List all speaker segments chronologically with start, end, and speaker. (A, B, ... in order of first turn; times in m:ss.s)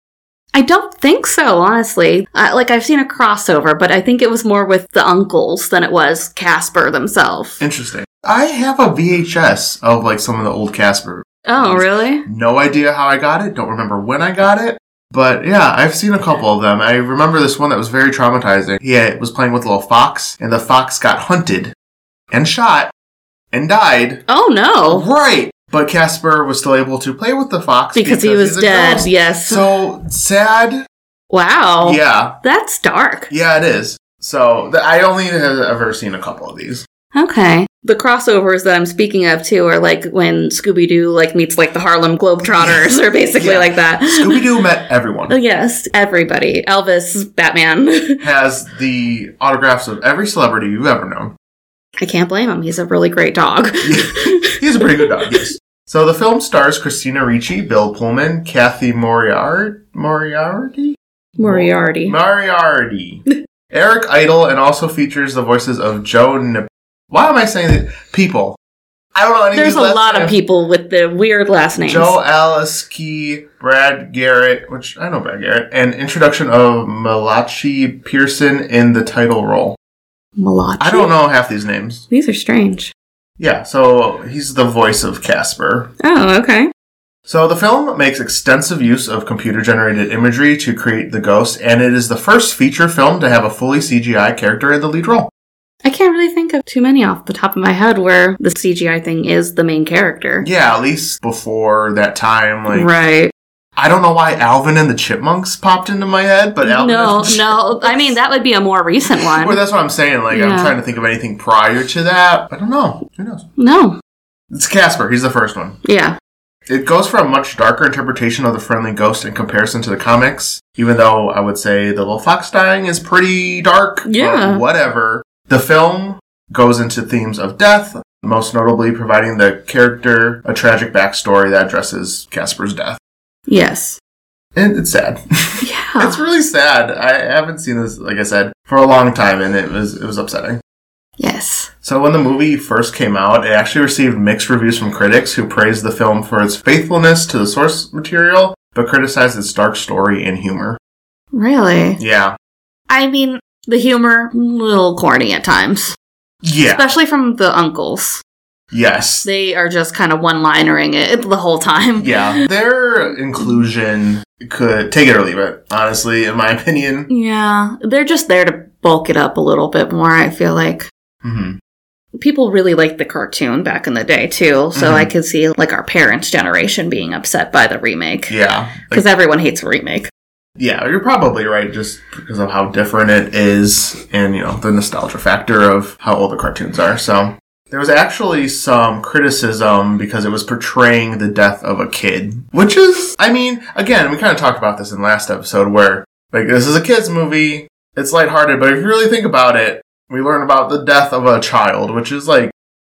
0:00.5-0:07.6 A
0:07.6-0:21.7 B
0:11.4-0:12.2 A
0:22.3-0:22.9 B
0:23.5-0:24.2 B
0:24.3-0:25.1 A
0:24.9-0:30.8 B
0:28.0-0:29.6 A
0:31.3-0:33.3 A
0:31.8-0:32.4 B
0:33.3-0:36.8 B
0:37.1-0:44.5 A
0:42.4-0:45.4 B
0:45.3-0:48.2 A
0:48.2-0:51.4 B
0:52.0-0:55.4 A
0:53.8-1:08.6 B
1:01.4-1:02.2 A
1:09.2-1:10.4 B
1:09.5-1:12.2 A
1:11.9-1:19.8 B
1:20.4-1:21.1 A
1:20.8-1:22.0 B
1:22.1-1:22.9 A
1:23.4-1:25.9 B
1:26.0-1:26.7 A
1:27.3-1:35.3 B
1:35.8-1:40.5 A
1:40.4-1:42.9 B
1:42.7-1:43.3 A
1:43.8-1:48.2 B
1:46.6-1:49.6 A
1:49.1-1:53.5 B
1:50.3-1:50.7 A
1:53.6-1:54.0 A
1:54.5-1:55.8 B
1:55.8-1:56.2 A
1:56.7-2:13.0 B
2:04.1-2:04.6 A
2:13.5-2:14.0 A
2:14.6-2:20.6 B
2:15.6-2:16.2 A
2:21.2-2:21.7 A
2:21.8-2:30.8 B
2:31.3-2:32.0 A
2:32.0-2:32.4 B
2:32.9-2:36.0 A
2:36.4-2:36.9 B
2:36.7-2:38.2 A
2:38.7-2:39.3 B
2:39.2-2:42.5 A
2:42.0-2:47.1 B
2:47.1-2:50.9 A
2:51.2-2:51.6 B
2:52.2-2:58.3 A
2:54.8-2:55.1 B
2:58.3-2:59.0 B
2:58.9-3:00.1 A
3:00.6-3:22.5 B